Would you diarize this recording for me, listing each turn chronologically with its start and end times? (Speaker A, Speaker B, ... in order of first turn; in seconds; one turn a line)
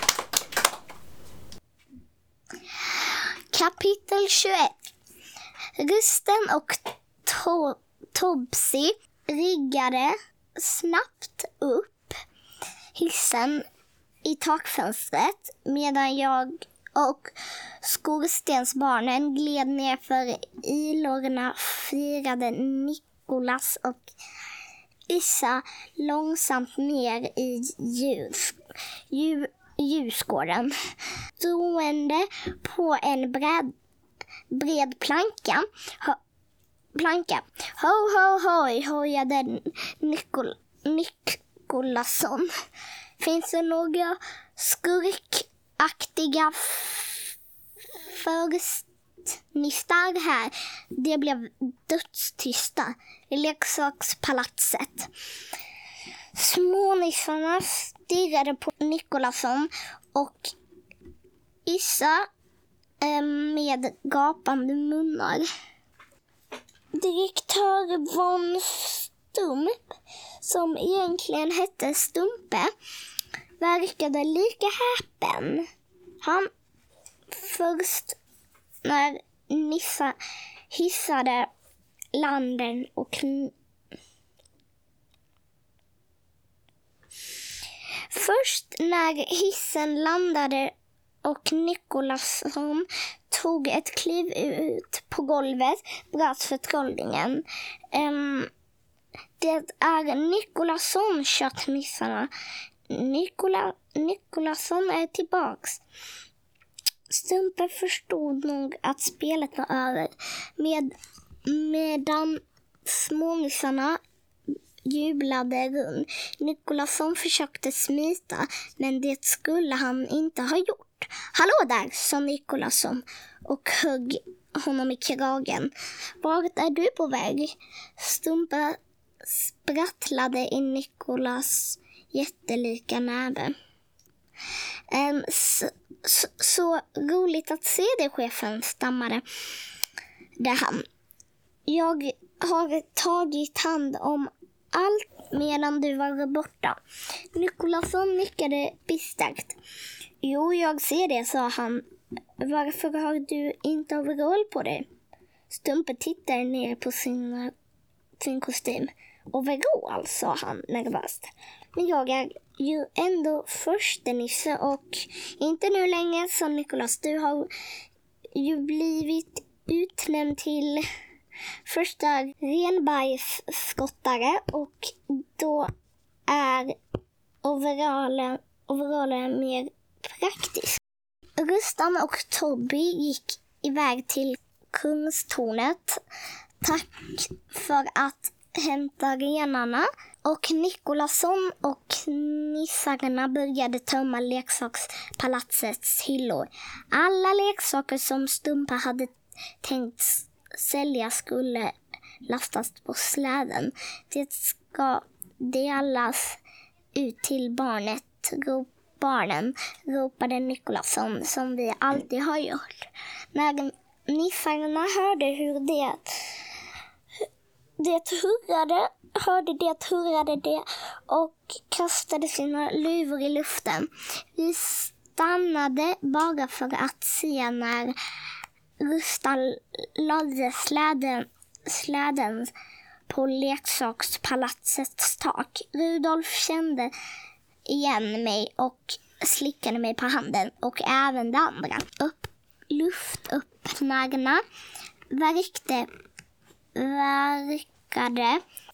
Speaker A: 2.7-4.8
Speaker A: 5.8-12.2
Speaker A: 12.9-13.7
Speaker A: 14.2-24.1
Speaker A: 25.1-28.6
Speaker A: 29.1-30.8
Speaker A: 31.4-33.7
Speaker A: 34.5-36.2
Speaker A: 37.0-42.5
Speaker A: 43.2-47.3
Speaker A: 47.9-48.9
Speaker A: 49.4-55.1
Speaker A: 56.3-60.5
Speaker A: 61.6-62.3
Speaker A: 63.0-65.5
Speaker A: 67.0-72.7
Speaker A: 73.6-75.7
Speaker A: 76.2-76.5
Speaker A: 77.3-78.2
Speaker A: 78.8-80.2
Speaker A: 80.7-81.5
Speaker A: 82.1-83.5
Speaker A: 88.1-90.7
Speaker A: 91.2-98.5
Speaker A: 99.4-102.3
Speaker A: 102.9-105.8
Speaker A: 107.1-110.9
Speaker A: 111.5-114.0
Speaker A: 114.8-133.6
Speaker A: 134.9-139.2
Speaker A: 140.4-140.8
Speaker A: 141.7-146.8
Speaker A: 147.3-149.6
Speaker A: 150.2-151.8
Speaker A: 152.4-154.9
Speaker A: 155.5-157.5
Speaker A: 158.2-167.5
Speaker A: 168.3-170.9
Speaker A: 171.7-175.7
Speaker A: 176.3-176.8
Speaker A: 177.4-180.8
Speaker A: 181.4-186.0
Speaker A: 186.6-206.4
Speaker A: 206.9-216.6
Speaker A: 217.8-228.0
Speaker A: 228.8-232.5
Speaker A: 233.1-236.9
Speaker A: 237.7-244.4
Speaker A: 245.1-245.9
Speaker A: 246.8-248.4